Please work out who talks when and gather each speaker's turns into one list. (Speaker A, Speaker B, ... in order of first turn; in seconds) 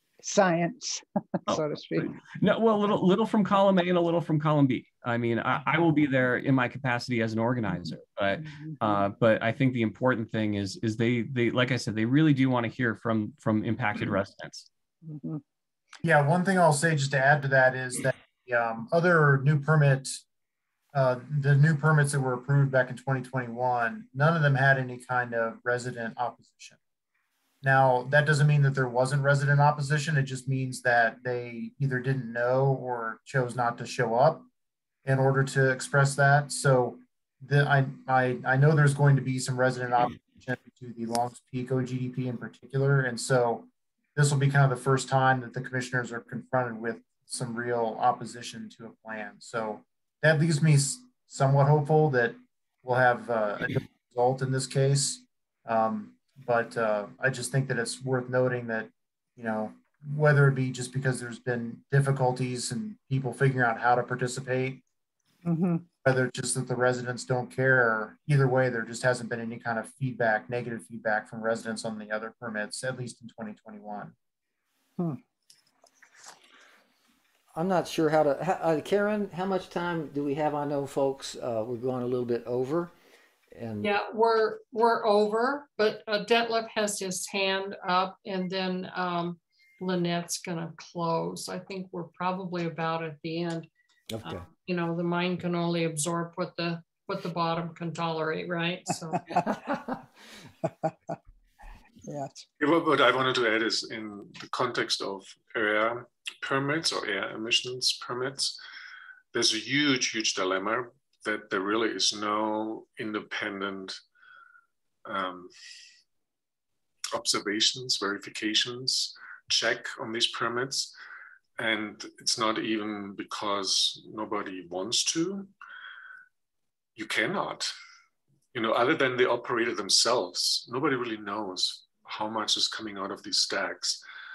Speaker A: 0.2-2.1, 8.5-8.9, 15.0-15.4, 65.4-65.8, 99.3-99.6, 102.1-102.4
Speaker B: 1.5-14.7
Speaker C: 16.0-20.2, 20.9-26.8, 27.6-34.5, 35.0-64.8, 66.0-74.1
Speaker D: 77.5-82.9, 83.5-83.9, 94.1-94.4
Speaker E: 83.8-93.7, 94.2-99.3
Speaker F: 102.6-108.6, 109.3-114.0, 115.0-115.5, 117.1-120.9, 121.6-125.5, 127.0-127.7, 128.5-134.0